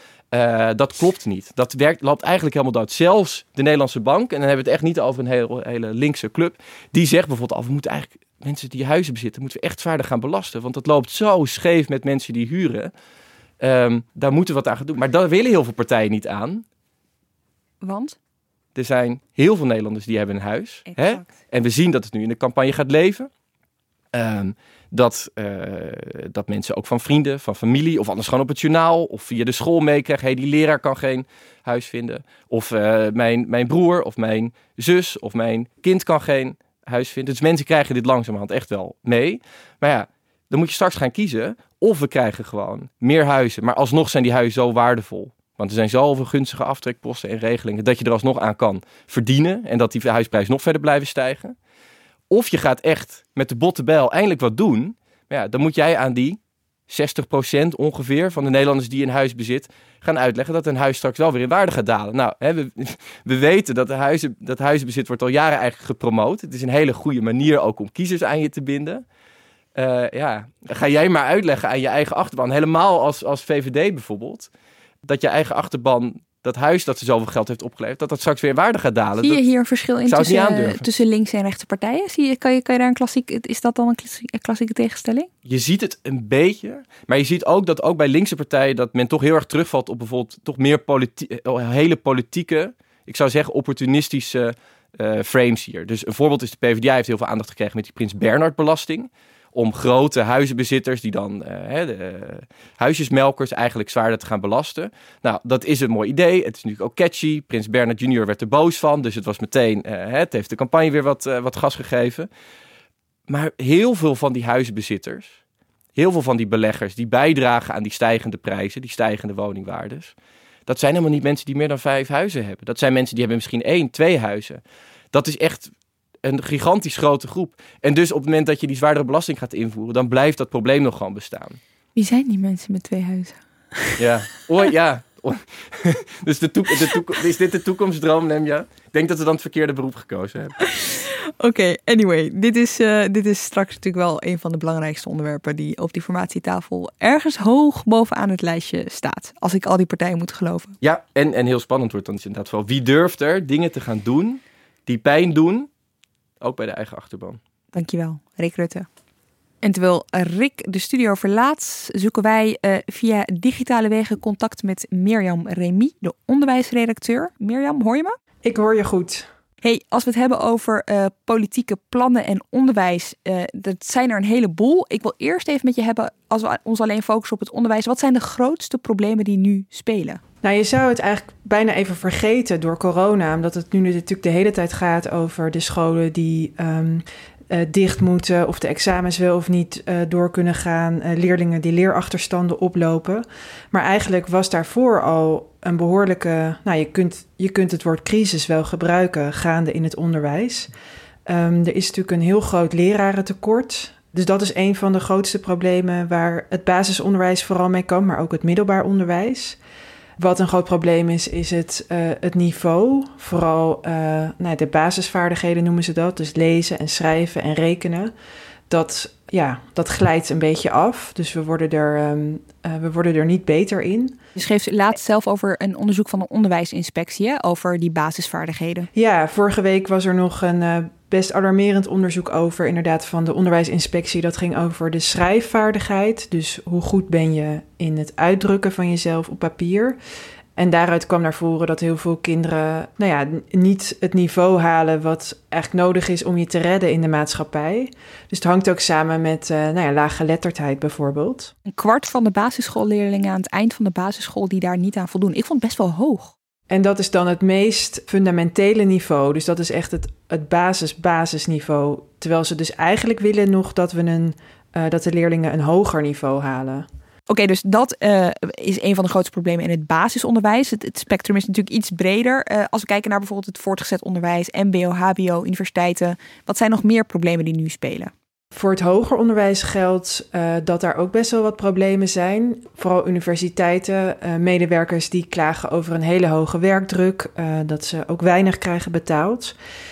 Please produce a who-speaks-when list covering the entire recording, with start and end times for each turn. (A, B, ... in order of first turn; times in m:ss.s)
0:00.3-0:12.9 A
0:13.6-0:16.6 A
0:17.8-0:18.2 B
0:18.8-0:23.3 A
0:20.9-0:21.3 B
0:24.1-0:51.6 A
0:52.3-0:56.4 A
0:56.9-1:09.0 A
1:09.8-1:14.5 A
1:15.0-1:19.4 A
1:19.2-1:25.3 B
1:20.0-1:21.0 A
1:25.4-1:52.3 A
1:53.3-1:55.4 A
1:56.0-2:00.1 A
2:00.7-2:04.6 A
2:05.1-2:05.7 A
2:06.2-2:11.6 A
2:12.0-2:14.0 B
2:14.0-2:20.6 A
2:20.7-2:30.7 B
2:30.8-2:35.7 A
2:36.4-2:37.4 A
2:37.7-2:38.9 B
2:39.6-2:48.2 B
2:48.4-2:49.3 C
2:49.6-3:00.2 B
3:00.4-3:20.7 C
3:21.3-3:29.6 C
3:30.2-3:38.1 C
3:38.7-3:44.2 C
3:44.4-3:48.9 B
3:48.9-4:00.0 C
4:00.6-4:11.5 C
4:11.7-4:16.3 B
4:16.7-4:26.9 C
4:27.3-4:38.1 B
4:38.5-4:49.6 C